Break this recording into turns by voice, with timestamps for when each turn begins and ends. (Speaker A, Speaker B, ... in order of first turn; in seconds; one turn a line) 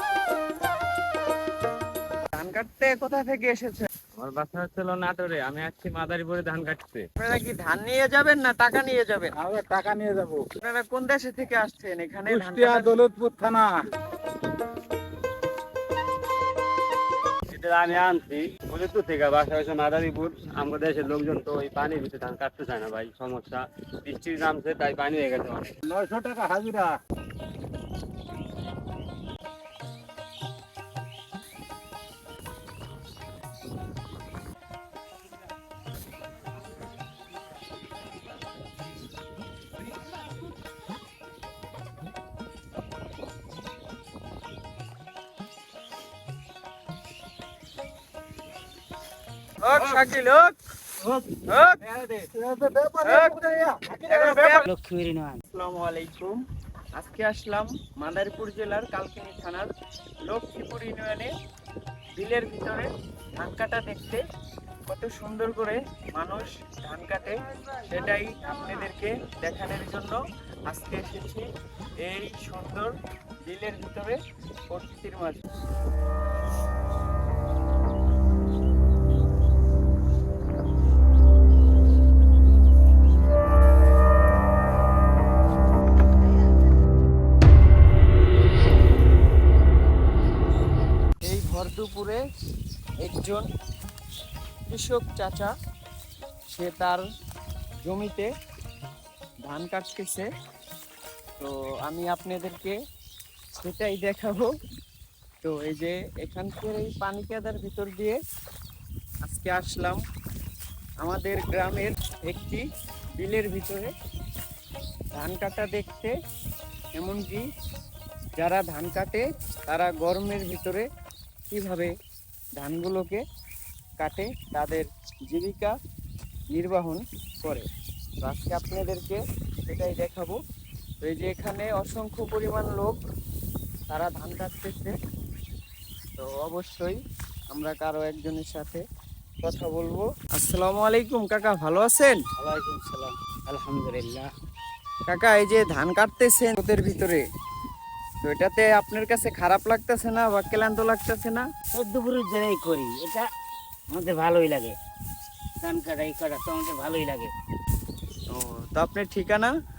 Speaker A: 2.3-3.9
Speaker B: 4.2-7.0
Speaker A: 7.2-9.3
Speaker C: 9.4-10.4
Speaker A: 10.6-12.9
Speaker C: 12.3-13.7
Speaker B: 17.5-25.7
Speaker C: 25.9-26.9
Speaker A: 49.6-50.5
Speaker A: 51.5-51.8
Speaker C: 51.9-54.6
Speaker A: 53.0-53.4
Speaker A: 54.1-54.6
Speaker D: 54.6-55.4
Speaker A: 55.5-56.4
Speaker A: 57.0-59.7
Speaker A: 60.3-61.3
Speaker A: 62.1-64.2
Speaker A: 64.9-67.3
Speaker A: 67.9-70.2
Speaker A: 70.7-71.4
Speaker A: 72.0-72.9
Speaker A: 73.5-74.2
Speaker A: 74.7-75.4
Speaker A: 91.2-92.2
Speaker A: 93.0-93.5
Speaker A: 94.7-95.5
Speaker A: 96.5-97.0
Speaker A: 97.8-98.3
Speaker A: 99.4-100.3
Speaker A: 101.4-102.8
Speaker A: 103.6-104.5
Speaker A: 105.4-108.2
Speaker A: 109.2-110.0
Speaker A: 111.0-112.6
Speaker A: 113.2-113.9
Speaker A: 115.1-116.1
Speaker A: 117.0-117.4
Speaker A: 118.4-120.8
Speaker A: 121.5-121.9
Speaker A: 122.6-123.2
Speaker A: 124.0-125.7
Speaker A: 126.5-127.6
Speaker A: 128.2-130.4
Speaker A: 131.0-133.0
Speaker A: 133.9-134.9
Speaker A: 136.2-137.0
Speaker A: 137.5-138.8
Speaker A: 139.4-142.2
Speaker D: 142.4-144.3
Speaker A: 145.1-147.2
Speaker A: 148.2-151.4
Speaker D: 151.7-153.2
Speaker D: 153.9-154.8
Speaker D: 155.6-157.3
Speaker A: 158.3-159.5